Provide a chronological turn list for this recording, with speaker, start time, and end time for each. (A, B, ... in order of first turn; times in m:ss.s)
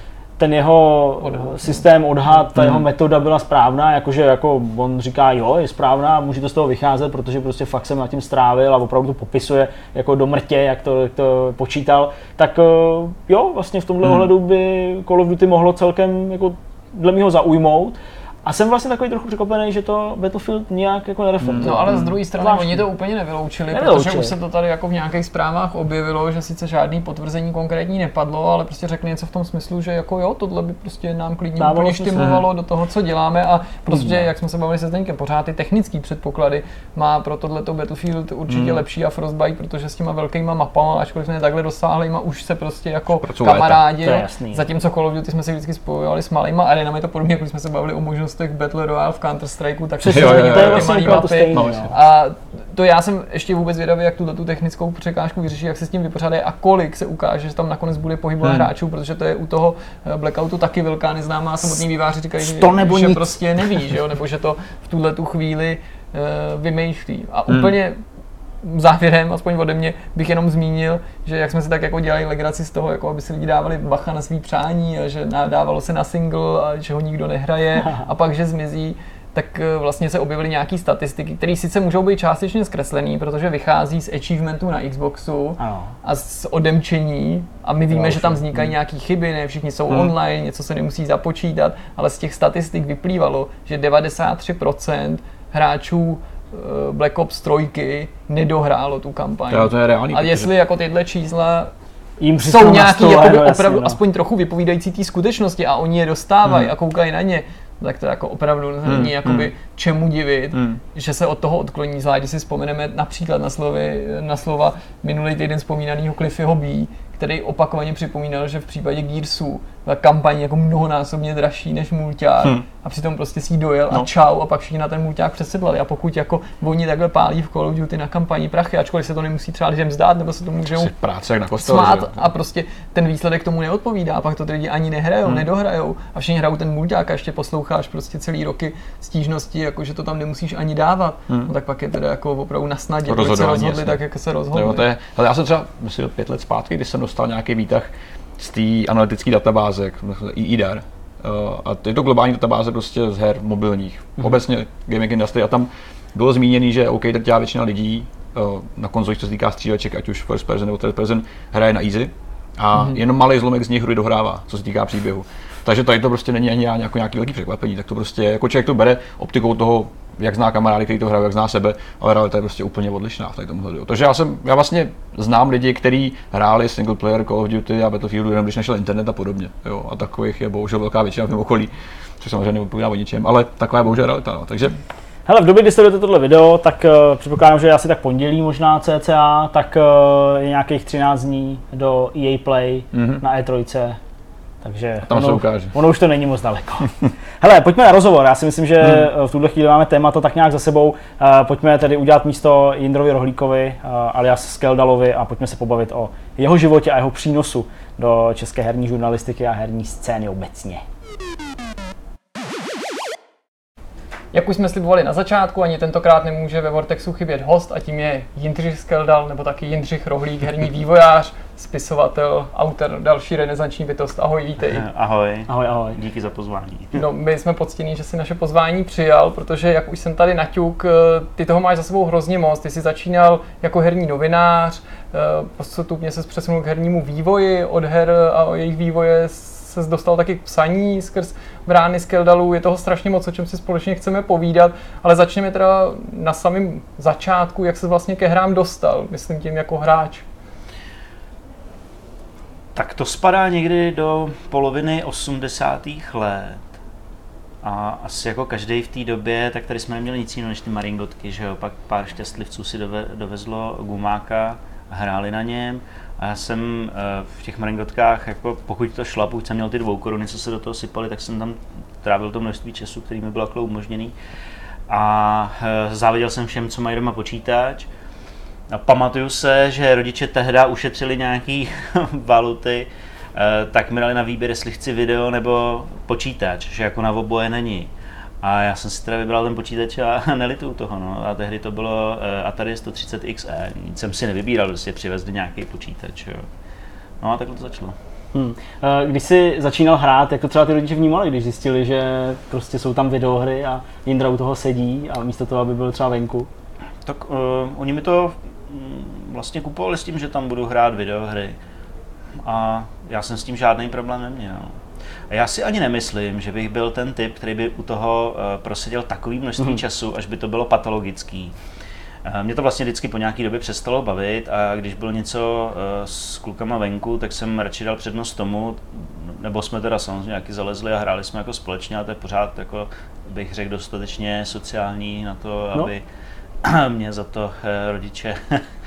0:00.4-0:22.9 A
0:02.6-0:02.8 B
0:21.4-0:22.1 B
0:21.6-1:08.0 C
0:23.7-0:24.3 A
0:31.6-0:32.3 A
0:32.2-0:32.4 B
0:33.9-0:34.2 A
0:38.5-0:38.8 B
0:43.2-0:43.8 B
0:44.0-0:44.6 A
0:50.0-0:51.9 A
0:50.0-0:51.9 B
1:02.4-1:03.6 A
1:08.6-1:41.7 C
1:17.8-1:18.0 A
1:25.6-1:25.9 A
1:27.9-1:28.4 A
1:39.5-1:40.5 B
1:42.2-1:44.0 A
1:42.4-2:10.9 C
1:46.5-1:46.7 B
1:48.9-1:49.5 B
2:10.8-2:12.2 B
2:11.6-2:24.9 C
2:23.1-2:24.0 B
2:24.5-3:04.7 B
3:05.3-3:14.0 A
3:12.9-3:13.2 B
3:14.6-3:30.8 A
3:15.1-3:15.7 B
3:34.3-3:44.8 C
3:44.7-3:47.0 D
3:45.5-3:46.0 A
3:46.9-4:10.2 C
4:12.7-4:16.6 D
4:17.6-4:34.1 D
4:34.9-4:37.9 D
4:38.7-4:56.4 D
4:57.2-4:58.0 D
4:58.3-5:06.5 A
5:07.0-5:11.6 D
5:12.4-5:14.8 D
5:15.3-5:21.5 D
5:22.2-5:36.0 D
5:36.6-5:38.6 D